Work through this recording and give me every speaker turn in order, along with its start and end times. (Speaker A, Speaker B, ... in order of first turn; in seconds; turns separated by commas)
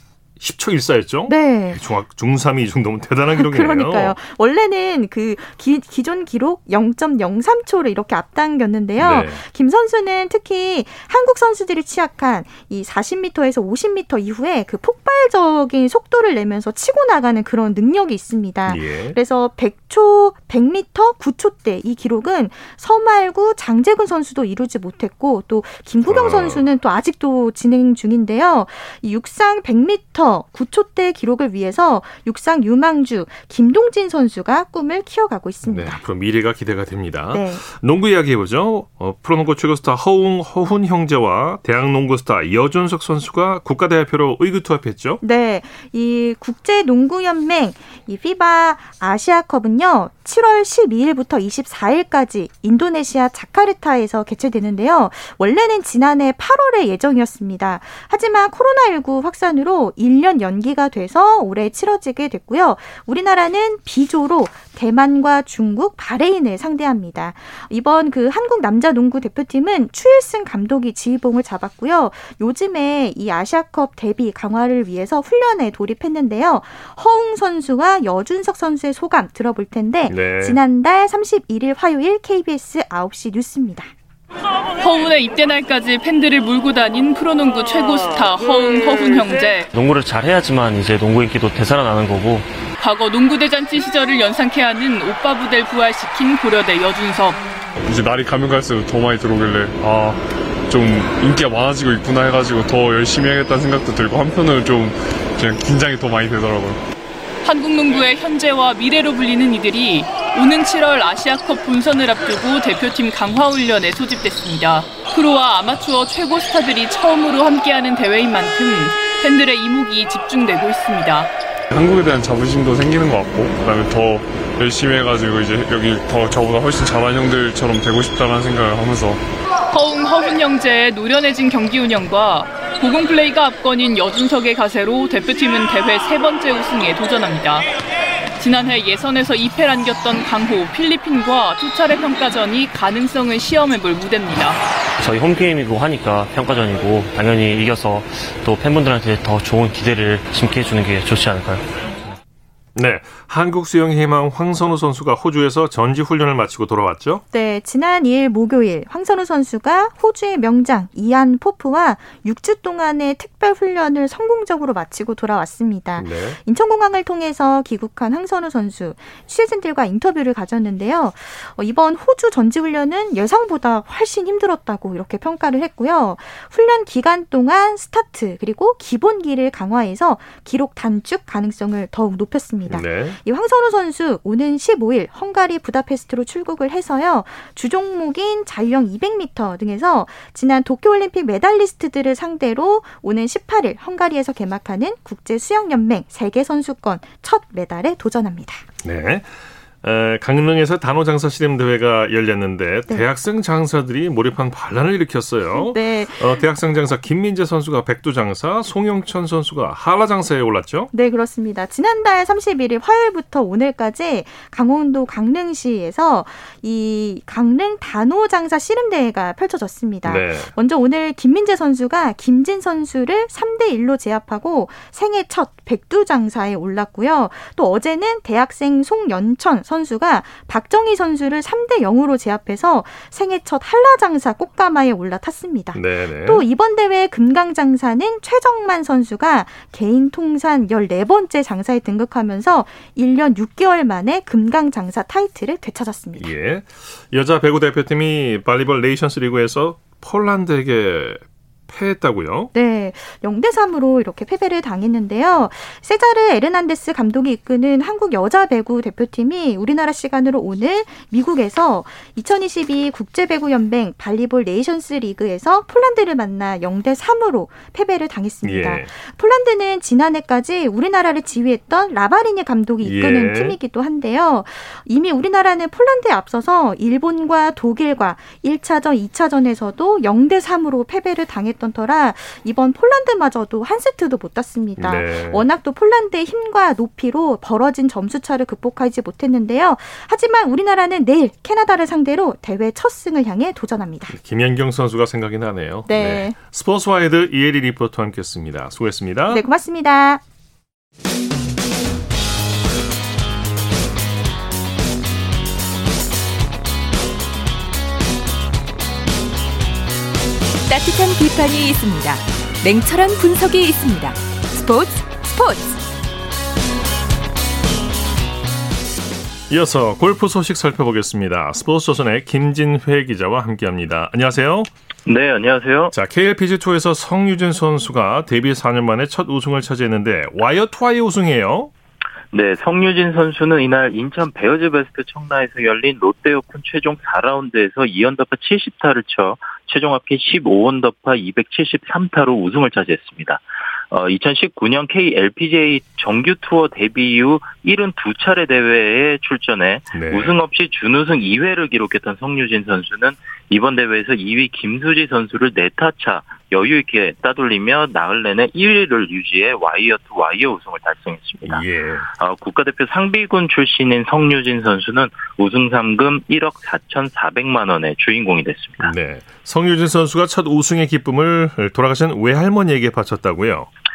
Speaker A: 0.4-4.2, Speaker B: 1.3-1.8, Speaker B: 3.3-36.0, Speaker A: 9.0-9.4, Speaker A: 18.7-19.2, Speaker A: 26.1-26.6, Speaker A: 35.7-45.2, Speaker B: 37.3-37.6, Speaker B: 45.2-83.9, Speaker A: 80.1-80.6, Speaker C: 84.8-89.7, Speaker D: 89.7-92.5, Speaker C: 92.8-97.4, Speaker E: 97.8-106.8, Speaker C: 107.4-121.3, Speaker E: 121.7-129.2, Speaker C: 129.7-137.7, Speaker C: 138.4-144.6, Speaker D: 145.0-151.7, Speaker A: 152.8-157.2, Speaker B: 157.3-198.7, Speaker A: 166.0-166.4, Speaker A: 182.7-183.2, Speaker A: 198.8-210.9, Speaker B: 205.6-206.4, Speaker B: 210.9-246.3, Speaker A: 220.1-220.5, Speaker A: 235.7-236.4, Speaker A: 246.2-252.5, Speaker B: 252.5-294.2, Speaker A: 268.4-268.9, Speaker A: 272.8-273.6, Speaker A: 284.8-285.4, Speaker A: 294.1-299.4, Speaker B: 295.9-296.4, Speaker B: 299.3-300.2, Speaker F: 310.7-315.8, Speaker A: 319.5-324.7, Speaker G: 325.1-325.9, Speaker A: 325.9-331.7, Speaker G: 332.3-361.6, Speaker A: 349.9-350.4, Speaker A: 361.4-362.1, Speaker G: 362.2-368.9, Speaker A: 368.8-373.7